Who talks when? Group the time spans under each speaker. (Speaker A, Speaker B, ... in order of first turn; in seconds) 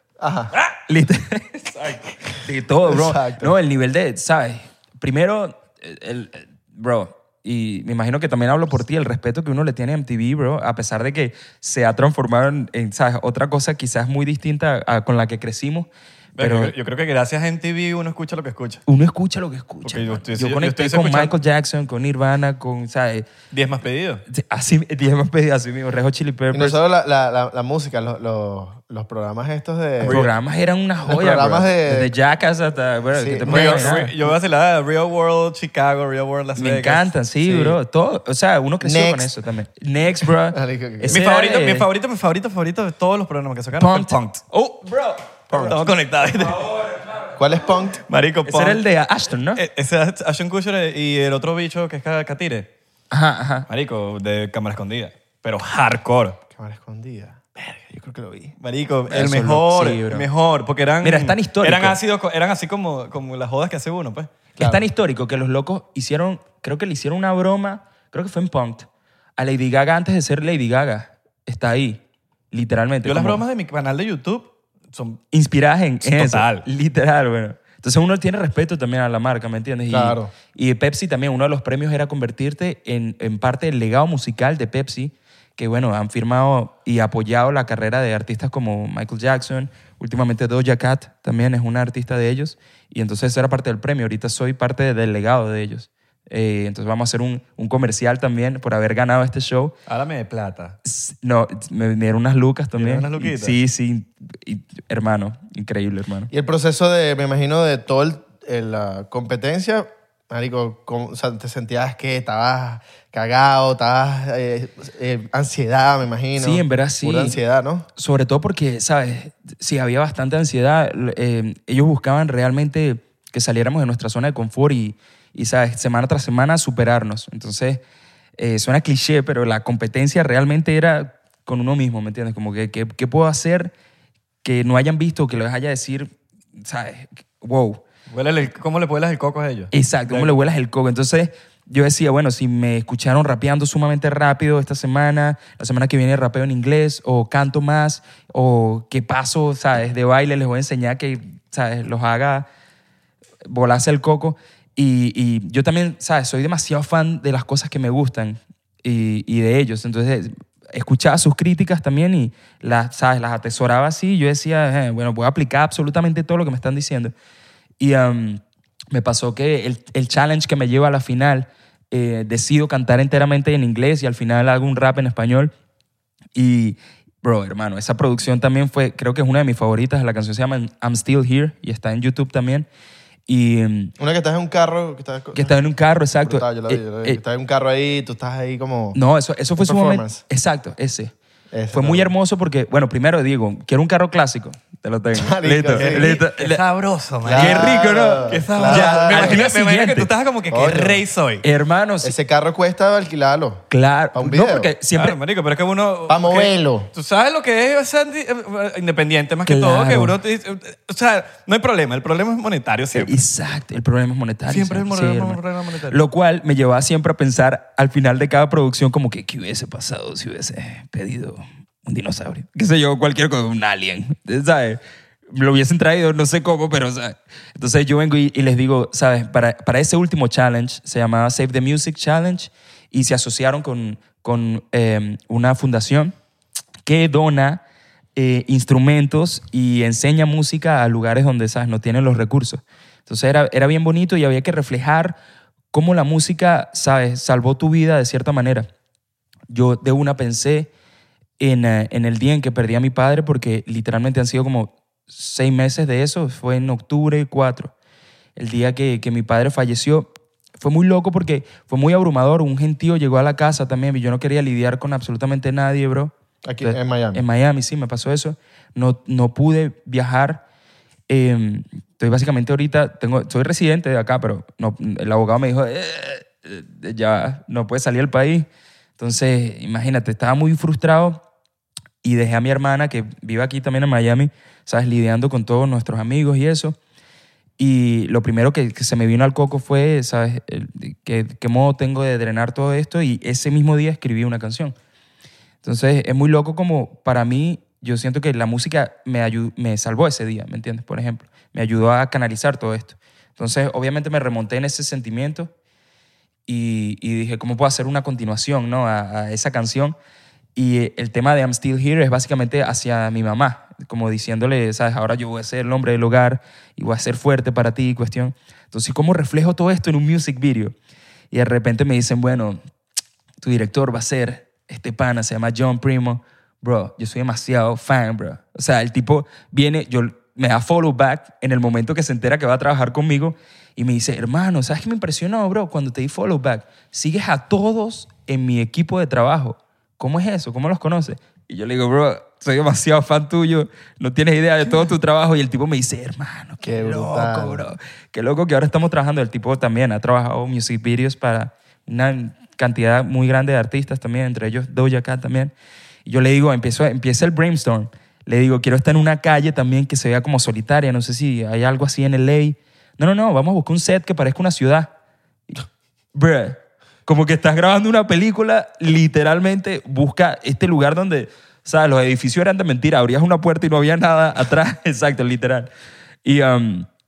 Speaker A: 0.2-0.5, 2.8-3.5, 26.5-30.2, 31.1-32.1, 33.1-34.0, 38.8-39.3, 40.5-41.2, 47.4-48.0, 56.5-58.6, 64.6-64.8, 79.9-80.3, 106.3-117.9, 184.0-189.0, 189.6-190.2, 191.5-192.1, 195.1-196.2, 197.2-199.4, 200.5-201.0, 202.0-204.7, 206.1-206.9, 266.4-267.2, 346.6-347.6
Speaker B: 0.9-16.7, 18.9-23.3, 24.3-26.8, 30.0-34.1, 36.6-41.9, 43.8-45.8, 48.5-49.6, 53.1-53.7, 59.1-60.3, 61.0-62.0, 64.6-68.9, 69.4-73.4, 75.3-99.7, 100.8-106.3, 116.4-117.4, 118.0-127.8, 128.4-133.7, 134.4-137.8, 139.7-152.5, 153.4-167.1, 167.8-175.5, 176.3-182.7, 183.3-183.9, 185.3-187.2, 188.9-191.1, 191.7-196.6, 197.3-200.1, 201.4-202.1, 203.7-205.2, 209.4-210.2, 212.9-236.1, 236.9-237.6, 238.2-245.2, 245.7-248.7, 249.5-250.7, 251.4-257.7, 258.4-270.4, 271.1-278.5, 279.0-281.2, 282.0-286.8, 287.6-294.8, 295.6-305.5, 306.5-309.9, 310.6-320.7, 321.3-322.6, 323.4-355.5, 356.1-364.9, 366.1-375.7, 376.2-376.9
Speaker C: 16.4-18.8, 19.8-21.4, 23.5-24.2, 30.0-30.3, 33.5-37.7, 41.1-44.4, 45.5-47.1, 48.1-48.8, 49.6-52.7, 53.7-56.4, 58.6-64.4, 73.0-75.2, 76.0-76.7, 99.9-100.8, 102.8-103.6, 138.1-140.3, 195.7-201.4, 204.9-213.2, 214.5-216.0